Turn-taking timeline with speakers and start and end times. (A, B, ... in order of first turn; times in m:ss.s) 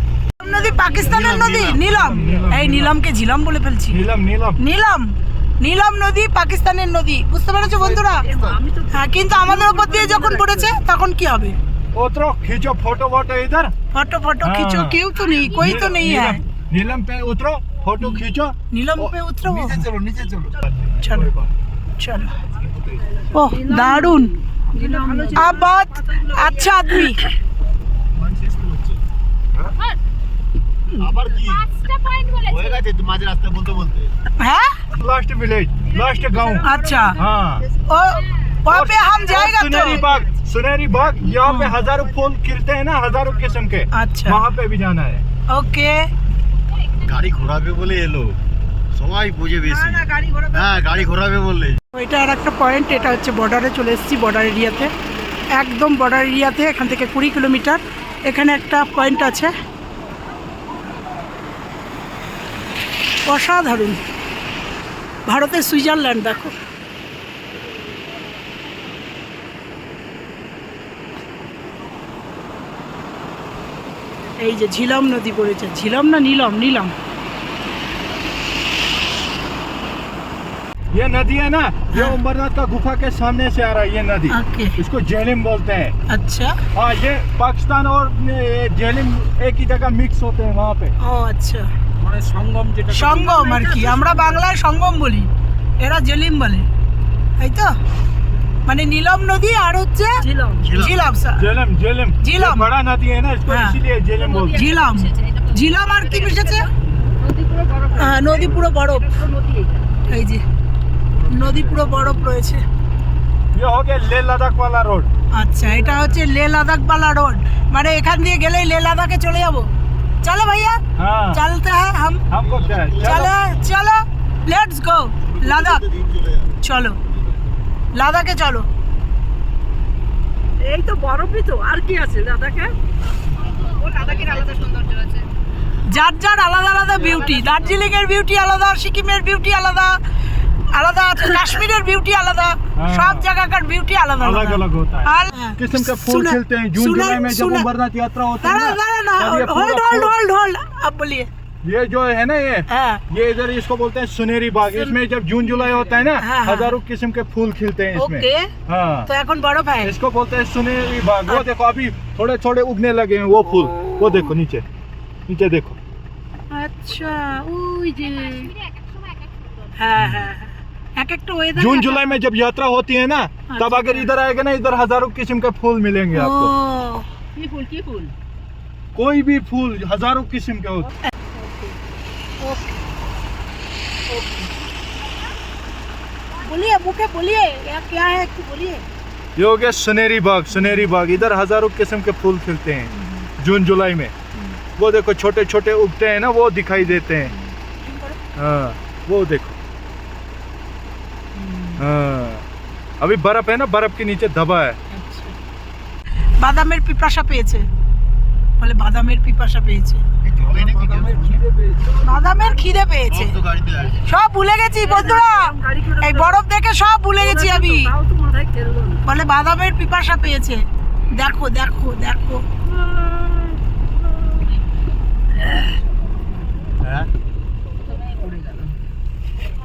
0:00.4-0:01.8 A
0:00.4-0:04.0 B
0:01.0-0:02.1 C
0:01.9-0:02.9 D
0:03.9-0:04.6 D
0:04.6-0:08.2 B
0:07.6-0:08.1 D
0:08.0-0:10.8 A
0:08.9-0:11.6 B
0:11.9-0:13.7 D
0:13.9-0:16.4 B
0:14.4-0:15.0 D
0:15.1-0:16.2 A
0:15.6-0:21.5 D
0:18.7-0:19.8 B
0:21.0-0:21.3 B
0:22.0-0:22.3 B
0:23.3-0:27.1 A
0:23.5-0:24.3 B
0:25.3-0:27.2 B
0:28.1-0:29.0 E
0:31.0-0:31.7 E
0:31.8-0:32.4 A
0:32.4-0:34.1 E
0:34.4-0:34.8 B
0:34.9-0:37.6 D
0:35.8-0:37.9 A
0:36.7-0:37.2 B
0:37.9-0:40.0 B
0:38.7-0:45.2 D
0:39.1-0:40.4 A
0:41.4-0:41.8 B
0:41.7-0:42.2 A
0:43.9-0:44.4 B
0:45.5-0:46.0 B
0:47.0-0:48.4 C
0:48.9-0:51.8 C
0:49.6-0:51.0 A
0:51.9-0:54.9 B
0:55.5-0:59.5 B
1:03.2-1:04.0 B
1:05.2-1:06.6 B
1:14.4-1:16.9 B
1:20.9-1:25.9 D
1:24.3-1:24.7 B
1:26.1-1:26.6 B
1:26.7-1:30.9 D
1:31.0-1:31.7 B
1:32.0-1:33.1 D
1:32.9-1:36.7 B
1:33.0-1:34.5 A
1:37.4-1:37.7 B
1:38.7-1:40.2 B
1:40.2-1:40.9 A
1:40.6-1:41.0 C
1:40.7-1:41.5 B
1:41.4-1:44.6 D
1:42.2-1:42.6 B
1:43.5-1:43.8 B
1:44.2-1:50.2 A
1:44.6-1:46.6 B
1:48.0-1:49.1 B
1:50.1-1:50.4 B
1:51.3-1:52.6 B
1:51.5-1:52.2 A
1:53.5-1:55.1 D
1:55.4-1:59.7 B
1:55.6-1:56.2 A
2:00.2-2:00.8 B
2:01.0-2:01.4 D
2:01.3-2:02.2 B
2:02.3-2:03.4 D
2:02.3-2:03.3 E
2:03.0-2:05.8 B
2:05.2-2:06.6 E
2:06.6-2:07.0 B
2:07.1-2:07.4 E
2:07.9-2:08.7 B
2:10.6-2:12.8 A
2:13.6-2:15.3 A
2:15.9-2:20.0 B
2:16.9-2:17.9 A
2:20.7-2:27.7 B
2:22.7-2:23.3 D
2:24.2-2:30.2 D
2:28.4-2:31.3 B
2:31.6-2:39.1 D
2:32.7-2:33.0 B
2:34.6-2:34.9 B
2:36.2-2:36.6 B
2:38.0-2:38.5 B
2:39.1-2:39.9 B
2:39.8-2:44.6 D
2:45.3-2:45.8 D
2:46.5-2:48.5 B
2:49.8-2:52.2 B
2:51.5-2:56.5 D
2:53.5-2:54.0 B
2:56.2-2:57.0 B
2:57.3-2:58.1 A
2:58.9-3:00.9 D
3:06.4-3:08.8 B
3:08.0-3:08.6 A
3:09.4-3:14.1 D
3:14.8-3:17.3 D
3:18.4-3:19.6 D
3:21.8-3:22.4 D
3:23.0-3:24.8 D
3:26.4-3:27.7 B
3:28.6-3:30.0 B
3:30.4-3:31.4 E
3:30.6-3:31.9 D
3:32.0-3:32.7 A
3:32.0-3:33.3 B
3:33.1-3:34.0 C
3:34.1-3:37.9 B
3:34.8-3:36.4 A
3:37.0-3:39.0 A
3:39.0-3:42.4 B
3:42.7-3:43.5 A
3:46.8-3:47.1 C
3:47.9-3:48.7 A